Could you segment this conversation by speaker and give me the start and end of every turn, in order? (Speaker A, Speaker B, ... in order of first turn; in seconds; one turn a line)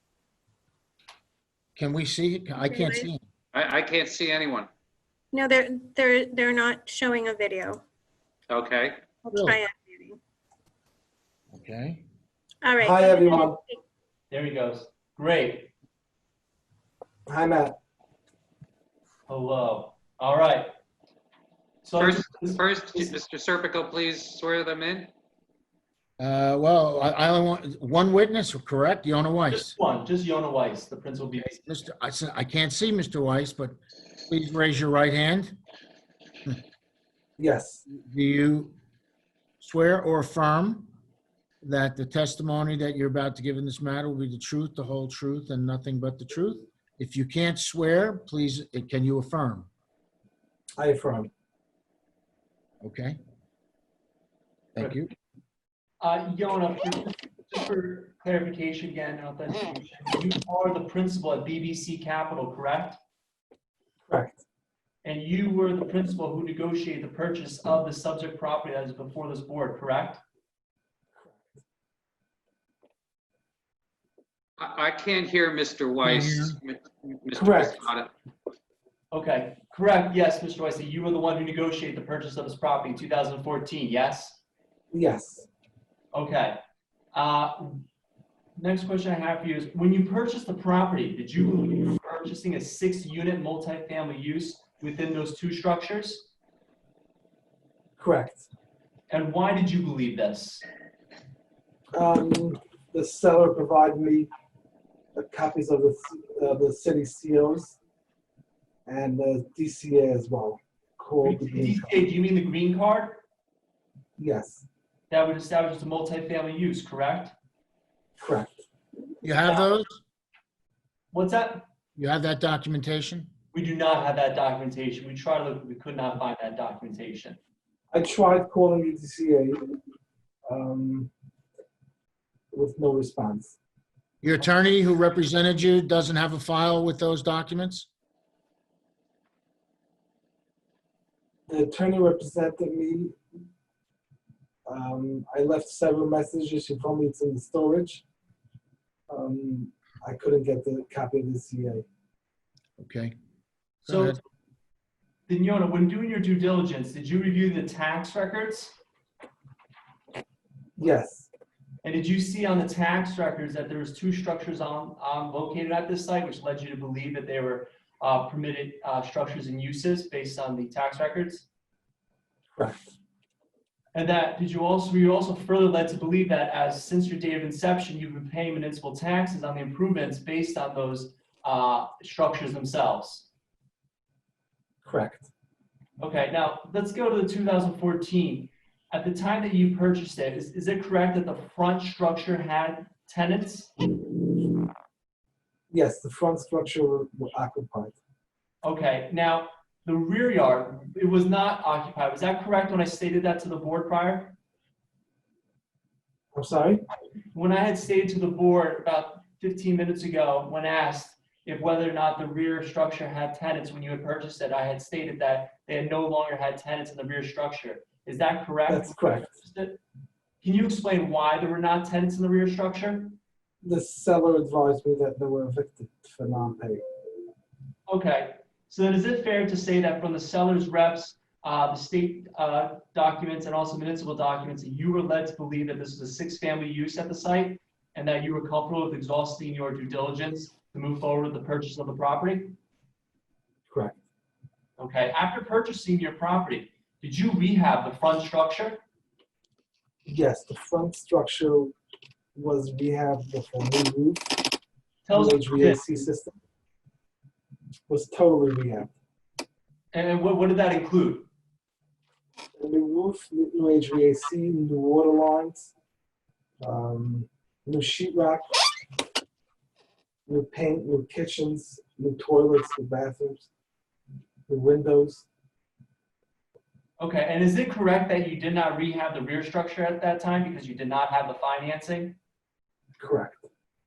Speaker A: 1.8-3.2
Speaker B: 2.6-3.1
Speaker C: 3.5-4.7
Speaker B: 5.3-7.8
Speaker C: 8.5-9.0
Speaker B: 9.2-10.2
Speaker A: 9.3-9.6
Speaker A: 11.5-12.0
Speaker B: 12.6-13.8
Speaker D: 12.8-13.6
Speaker E: 14.3-15.7
Speaker D: 17.3-17.8
Speaker E: 19.3-20.7
Speaker E: 21.8-23.1
Speaker C: 22.0-25.1
Speaker A: 26.2-29.7
Speaker E: 29.5-31.6
Speaker A: 31.4-33.8
Speaker A: 34.3-35.6
Speaker D: 37.4-37.8
Speaker A: 37.9-38.7
Speaker A: 39.6-40.9
Speaker A: 41.6-49.7
Speaker D: 50.8-51.3
Speaker A: 52.8-53.2
Speaker A: 54.8-55.1
Speaker E: 56.0-63.0
Speaker D: 64.1-64.4
Speaker E: 65.0-70.2
Speaker D: 71.2-71.5
Speaker C: 74.6-78.1
Speaker A: 76.0-76.6
Speaker D: 77.3-77.9
Speaker E: 79.1-84.4
Speaker D: 84.9-85.5
Speaker E: 86.1-86.6
Speaker E: 87.1-87.8
Speaker E: 88.6-96.3
Speaker D: 98.0-98.5
Speaker E: 99.1-100.7
Speaker D: 101.9-104.3
Speaker D: 105.2-107.8
Speaker D: 108.9-112.0
Speaker E: 111.2-113.2
Speaker D: 114.2-114.7
Speaker E: 115.1-117.3
Speaker D: 118.2-118.6
Speaker A: 119.2-119.9
Speaker E: 121.1-121.6
Speaker A: 122.0-123.3
Speaker E: 123.5-127.4
Speaker D: 127.9-129.7
Speaker D: 130.5-131.1
Speaker D: 132.5-133.6
Speaker A: 134.2-137.9
Speaker D: 141.5-143.2
Speaker D: 144.7-148.0
Speaker D: 149.1-151.8
Speaker A: 152.8-153.1
Speaker A: 153.8-154.2
Speaker E: 153.9-154.2
Speaker E: 155.3-158.8
Speaker D: 160.8-161.3
Speaker E: 161.8-171.5
Speaker D: 172.6-172.9
Speaker E: 173.9-183.3
Speaker D: 184.8-185.3
Speaker E: 186.0-193.7
Speaker D: 195.7-198.0
Speaker E: 198.6-204.4
Speaker D: 206.3-206.8
Speaker E: 207.3-219.8
Speaker D: 218.7-219.3
Speaker E: 220.4-223.2
Speaker D: 223.6-226.8
Speaker E: 227.9-242.6
Speaker D: 243.7-244.0
Speaker E: 244.8-248.8
Speaker D: 250.1-251.8
Speaker D: 252.3-254.4
Speaker E: 255.1-255.8
Speaker D: 255.1-256.4
Speaker D: 257.9-258.9
Speaker E: 259.9-261.3
Speaker D: 262.6-265.7
Speaker D: 266.6-268.6
Speaker D: 270.3-273.5
Speaker D: 274.5-275.3
Speaker E: 277.0-282.2
Speaker D: 283.0-283.4